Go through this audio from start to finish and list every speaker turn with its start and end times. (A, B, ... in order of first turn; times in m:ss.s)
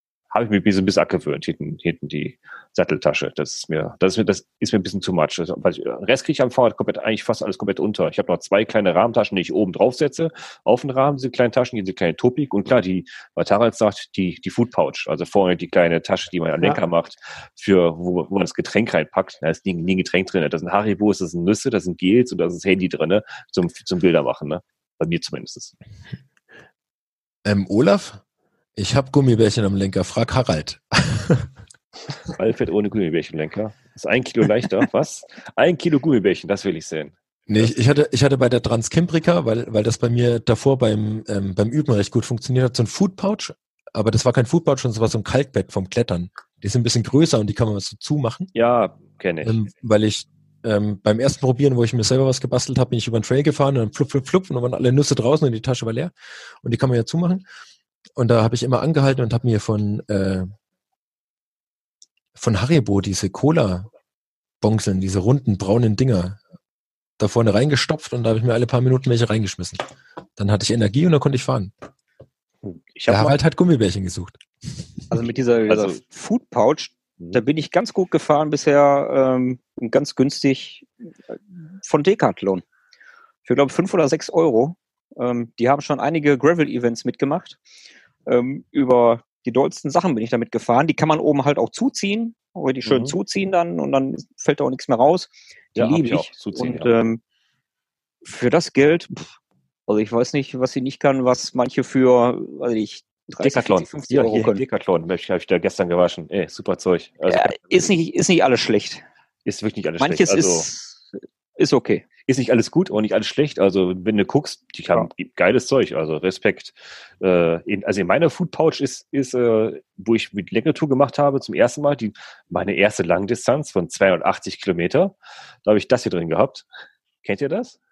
0:00.3-0:25.7 A
0:27.4-0:28.2 B
0:28.8-0:31.5 B
0:32.4-0:37.7 A
0:37.5-0:48.5 B
0:48.5-0:49.6 A
0:49.4-0:57.4 B
0:58.2-1:00.5 B
1:02.4-1:03.9 B
1:04.6-1:06.4 B
1:07.2-1:09.8 B
1:10.4-1:11.7 B
1:12.6-1:13.4 A
1:13.1-1:14.4 B
1:15.1-1:20.9 C
1:15.7-1:16.0 A
1:21.7-1:22.6 C
1:23.4-1:27.6 C
1:28.2-1:37.2 C
1:32.8-1:33.1 A
1:35.7-1:36.9 A
1:38.2-1:39.3 C
1:39.9-1:44.6 C
1:43.4-1:48.0 A
1:47.3-1:49.0 C
1:49.4-1:50.7 A
1:50.0-1:51.0 C
1:51.6-1:52.0 C
1:52.3-2:06.7 A
2:07.2-2:07.8 A